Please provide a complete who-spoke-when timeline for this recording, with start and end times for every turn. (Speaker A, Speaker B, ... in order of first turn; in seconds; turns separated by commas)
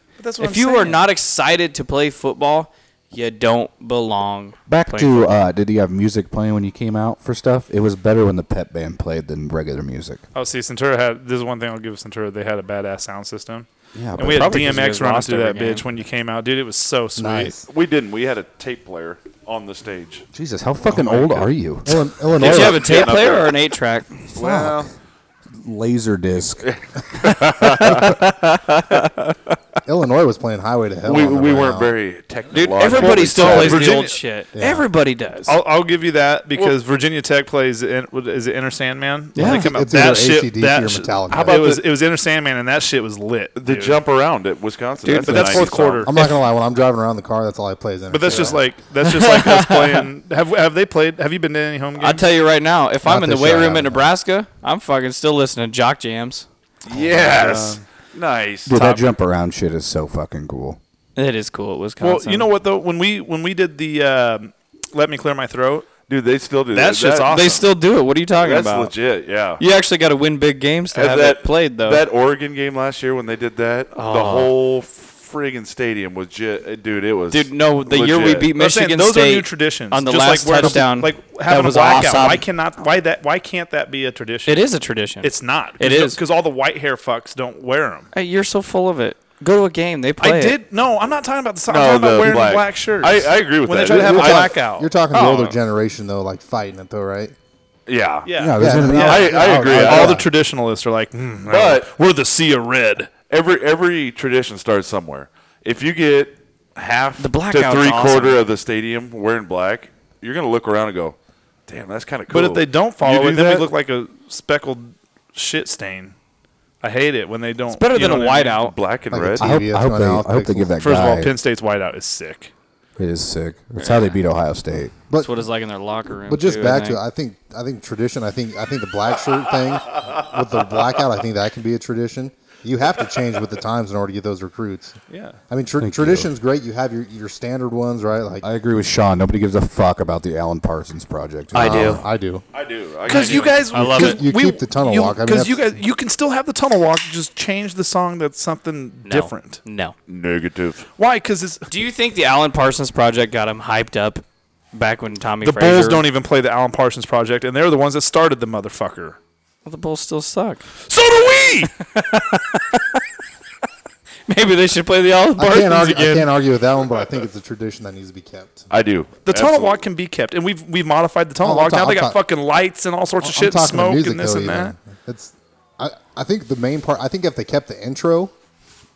Speaker A: 0.2-1.1, Speaker B: 0.4-5.4, Speaker C: 4.7-10.2, Speaker A: 10.3-17.6, Speaker C: 13.9-15.0, Speaker B: 14.2-15.8, Speaker D: 17.2-17.7, Speaker E: 17.7-20.2, Speaker C: 20.3-22.1, Speaker D: 21.9-23.0, Speaker E: 22.3-23.6, Speaker B: 22.4-24.2, Speaker E: 24.3-24.9, Speaker C: 24.3-24.9, Speaker C: 25.5-26.6, Speaker E: 26.6-28.1, Speaker B: 27.6-29.3, Speaker D: 29.9-31.9, Speaker E: 31.0-34.0, Speaker B: 32.5-35.5, Speaker D: 33.1-33.6, Speaker A: 33.3-34.2, Speaker D: 34.5-34.9, Speaker A: 35.5-44.0, Speaker B: 39.4-39.7, Speaker D: 39.4-41.6, Speaker E: 41.3-41.8, Speaker E: 43.6-46.1, Speaker B: 45.0-46.0, Speaker A: 45.2-46.2, Speaker D: 46.0-48.6, Speaker A: 48.1-52.3, Speaker B: 49.0-50.1, Speaker B: 52.0-56.5, Speaker D: 53.0-54.1, Speaker E: 56.9-58.8, Speaker A: 57.2-57.8, Speaker C: 58.7-60.8, Speaker A: 58.8-59.0, Speaker B: 61.2-62.5, Speaker A: 62.0-66.0, Speaker E: 66.0-67.5, Speaker A: 66.7-67.7, Speaker B: 67.3-68.9, Speaker E: 68.4-69.6, Speaker B: 69.6-72.0, Speaker E: 70.9-78.5, Speaker B: 73.9-74.5, Speaker B: 77.3-82.4, Speaker A: 78.5-84.6, Speaker B: 84.5-86.2, Speaker A: 85.2-88.1, Speaker B: 88.1-90.6, Speaker A: 90.2-95.6, Speaker E: 91.7-94.6, Speaker D: 93.9-97.3, Speaker E: 97.9-100.2, Speaker A: 98.3-103.1, Speaker C: 98.4-99.5, Speaker D: 98.6-100.3, Speaker E: 101.5-101.9, Speaker E: 103.3-111.2, Speaker B: 107.2-108.4, Speaker E: 111.7-113.7, Speaker A: 112.3-116.2, Speaker A: 116.8-118.6, Speaker B: 117.7-118.8, Speaker E: 118.6-119.5, Speaker D: 119.1-120.7, Speaker C: 119.4-121.3, Speaker A: 120.8-122.5, Speaker C: 123.0-125.0, Speaker B: 123.8-124.2, Speaker D: 125.1-125.5, Speaker B: 125.1-127.0, Speaker D: 126.3-135.0, Speaker A: 135.1-135.4, Speaker D: 135.5-138.5, Speaker C: 135.8-136.3, Speaker C: 138.4-142.0, Speaker D: 141.5-142.5, Speaker E: 141.6-142.0, Speaker E: 142.5-143.9, Speaker A: 143.1-149.6, Speaker B: 143.1-144.2, Speaker D: 143.9-145.6, Speaker B: 149.1-149.9, Speaker E: 150.1-150.9, Speaker A: 151.0-151.7, Speaker B: 151.7-156.1, Speaker A: 155.4-159.2, Speaker B: 159.7-160.7, Speaker A: 160.9-161.7, Speaker B: 161.8-163.0, Speaker B: 164.3-166.3, Speaker D: 165.4-168.7, Speaker E: 168.7-169.8, Speaker A: 169.2-174.8, Speaker D: 171.4-172.2, Speaker D: 173.2-178.3